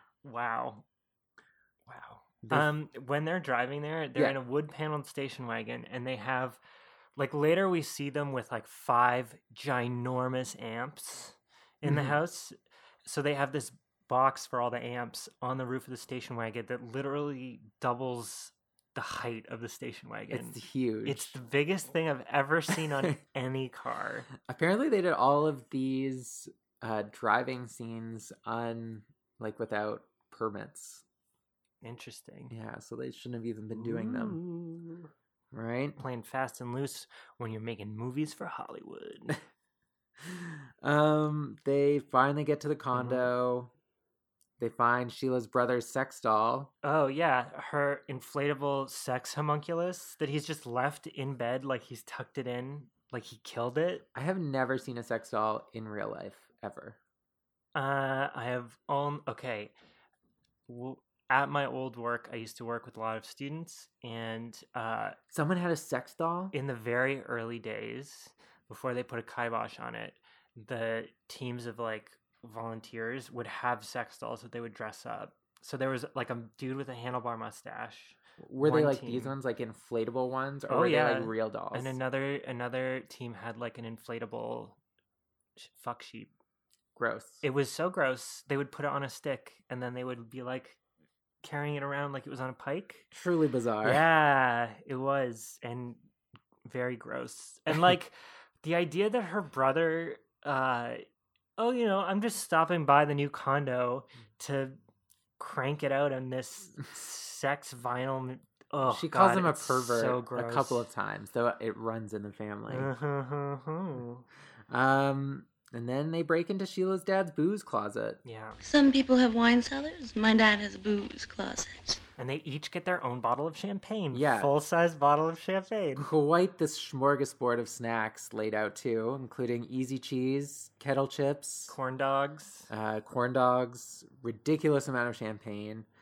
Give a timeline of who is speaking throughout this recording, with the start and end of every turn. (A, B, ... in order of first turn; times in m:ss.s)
0:00.2-0:00.8 A
0:01.9-0:06.6 A
0:02.4-0:02.7 B
0:07.2-0:24.3 A
0:11.8-0:12.2 B
0:20.3-0:21.4 B
0:22.8-0:23.1 B
0:24.4-0:31.0 B
0:31.8-0:32.5 A
0:32.5-0:34.4 B
0:33.7-0:35.1 A
0:35.5-0:36.0 B
0:36.0-0:39.4 A
0:40.2-0:43.7 B
0:42.9-0:43.3 A
0:44.6-0:46.7 B
0:46.8-0:54.0 A
0:54.1-0:57.0 B
0:57.7-0:59.7 A
1:00.7-1:05.2 A
1:05.3-1:06.6 B
1:06.5-1:19.3 A
1:18.4-1:22.0 B
1:20.7-1:24.8 A
1:25.6-1:26.3 A
1:27.0-1:27.4 B
1:27.4-1:30.8 A
1:31.4-1:33.1 A
1:33.1-1:34.0 B
1:33.8-1:36.0 A
1:36.6-1:41.0 A
1:41.6-1:44.8 A
1:45.4-1:50.9 A
1:48.8-1:52.9 B
1:52.7-1:54.2 A
1:54.7-1:58.2 B
1:58.2-1:58.6 A
1:58.6-2:02.0 C
2:02.2-2:06.1 A
2:04.1-2:04.5 B
2:06.0-2:11.8 B
2:11.7-2:12.7 A
2:12.7-2:15.9 B